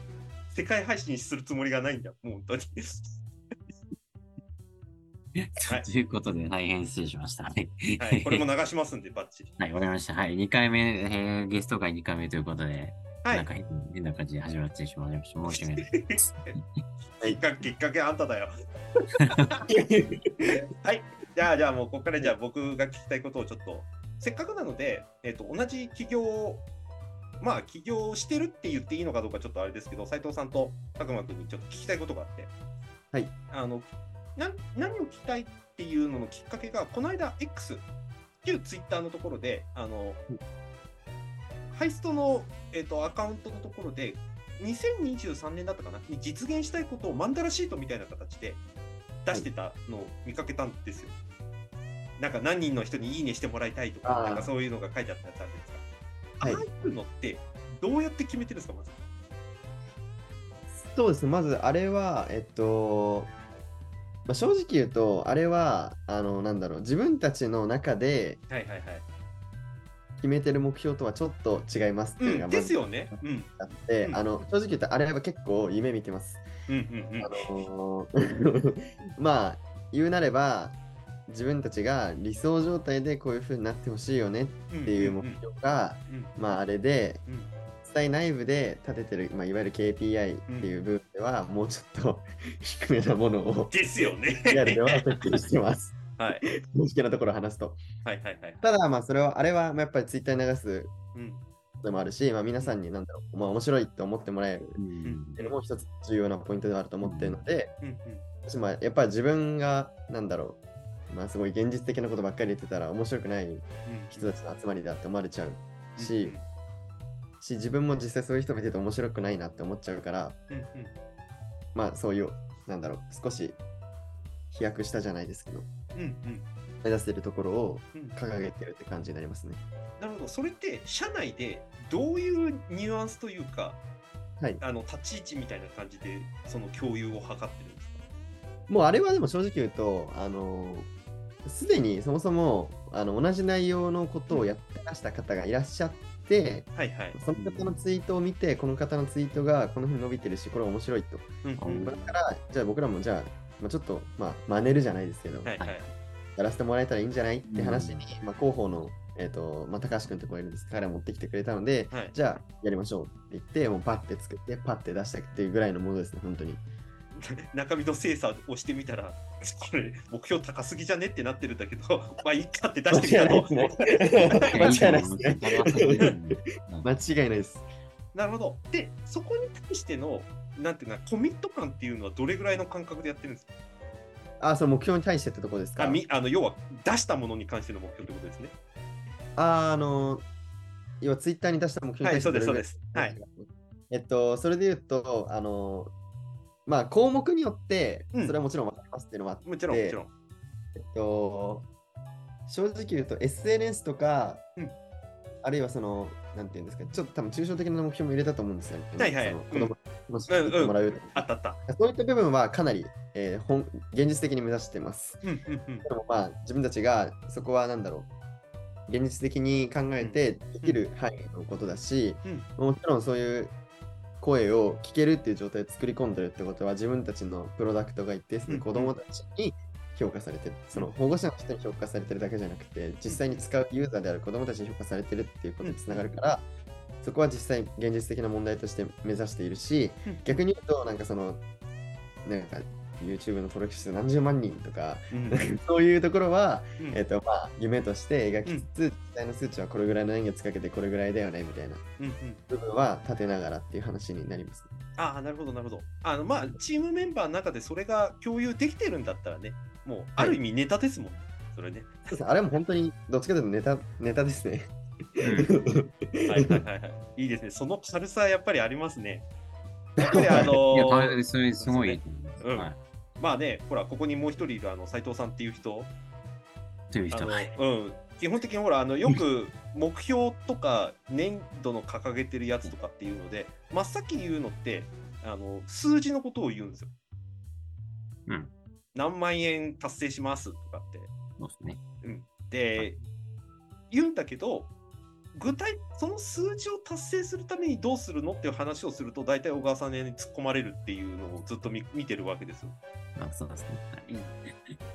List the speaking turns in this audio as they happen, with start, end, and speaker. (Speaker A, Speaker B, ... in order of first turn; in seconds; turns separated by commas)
Speaker A: 0.5-3.2, Speaker B: 5.4-8.4, Speaker A: 8.0-9.5, Speaker B: 9.6-16.0, Speaker A: 15.5-16.6, Speaker A: 17.2-19.6, Speaker B: 19.2-19.5, Speaker C: 19.7-20.5, Speaker A: 20.5-26.6, Speaker A: 27.4-32.5, Speaker A: 33.5-37.9, Speaker A: 38.4-40.2, Speaker A: 41.7-48.6, Speaker A: 49.2-51.1, Speaker A: 52.2-55.8, Speaker C: 54.0-54.5, Speaker A: 56.4-59.0, Speaker C: 60.7-63.3, Speaker C: 64.3-68.4, Speaker A: 68.5-69.0, Speaker C: 70.2-76.4, Speaker A: 72.2-73.5, Speaker A: 76.7-77.4, Speaker C: 77.2-80.8, Speaker C: 81.3-87.2, Speaker A: 84.7-85.4, Speaker A: 86.1-86.3, Speaker A: 87.3-87.5, Speaker C: 87.8-93.8, Speaker A: 93.7-95.0, Speaker C: 94.5-97.8, Speaker A: 96.2-96.5, Speaker A: 98.0-98.6, Speaker C: 98.6-101.0, Speaker A: 101.1-101.4, Speaker C: 101.8-104.8, Speaker B: 104.8-105.4, Speaker A: 105.0-105.5, Speaker C: 105.4-107.7, Speaker B: 107.0-107.4, Speaker A: 107.8-108.2, Speaker C: 108.5-116.4, Speaker A: 113.9-114.3, Speaker A: 116.0-116.5, Speaker C: 117.4-120.4, Speaker A: 120.5-120.9, Speaker C: 121.8-123.6, Speaker C: 124.5-125.7, Speaker A: 125.9-126.5, Speaker C: 126.8-129.6, Speaker A: 130.0-133.8, Speaker A: 134.6-138.0, Speaker C: 138.7-140.9, Speaker C: 141.4-155.6, Speaker A: 146.8-147.2, Speaker B: 147.3-147.9, Speaker A: 151.4-151.9, Speaker B: 151.6-152.2, Speaker A: 155.4-155.9, Speaker C: 156.4-166.6, Speaker B: 157.5-158.1, Speaker A: 167.2-175.1, Speaker C: 172.9-176.1, Speaker B: 174.4-176.9, Speaker C: 176.8-177.6, Speaker A: 178.1-183.5, Speaker C: 184.4-186.0, Speaker A: 185.8-188.5, Speaker C: 189.4-190.2, Speaker C: 191.0-195.9, Speaker A: 192.0-193.2, Speaker C: 196.7-200.0, Speaker A: 199.4-200.1, Speaker C: 200.8-201.7, Speaker C: 202.5-204.4, Speaker C: 205.4-215.2, Speaker A: 209.0-209.7, Speaker A: 210.3-211.6, Speaker A: 215.2-215.9, Speaker C: 215.8-218.1, Speaker C: 218.9-223.6, Speaker A: 220.0-220.8, Speaker C: 224.2-236.4, Speaker A: 228.5-228.9, Speaker A: 233.1-233.4, Speaker A: 235.6-236.1, Speaker C: 237.0-241.4, Speaker A: 240.1-240.4, Speaker C: 242.2-251.8, Speaker A: 245.1-245.5, Speaker A: 252.0-252.4, Speaker C: 252.5-254.8, Speaker A: 255.0-261.9, Speaker C: 262.1-266.6, Speaker B: 265.2-265.6, Speaker A: 266.3-269.3, Speaker C: 270.0-270.6, Speaker A: 270.0-275.9, Speaker B: 270.2-272.8, Speaker B: 276.9-277.5, Speaker A: 277.1-286.9, Speaker B: 288.3-288.5, Speaker A: 288.9-291.1, Speaker B: 291.4-291.8, Speaker A: 292.0-293.0, Speaker A: 293.9-294.7, Speaker A: 295.3-302.8, Speaker B: 303.2-304.5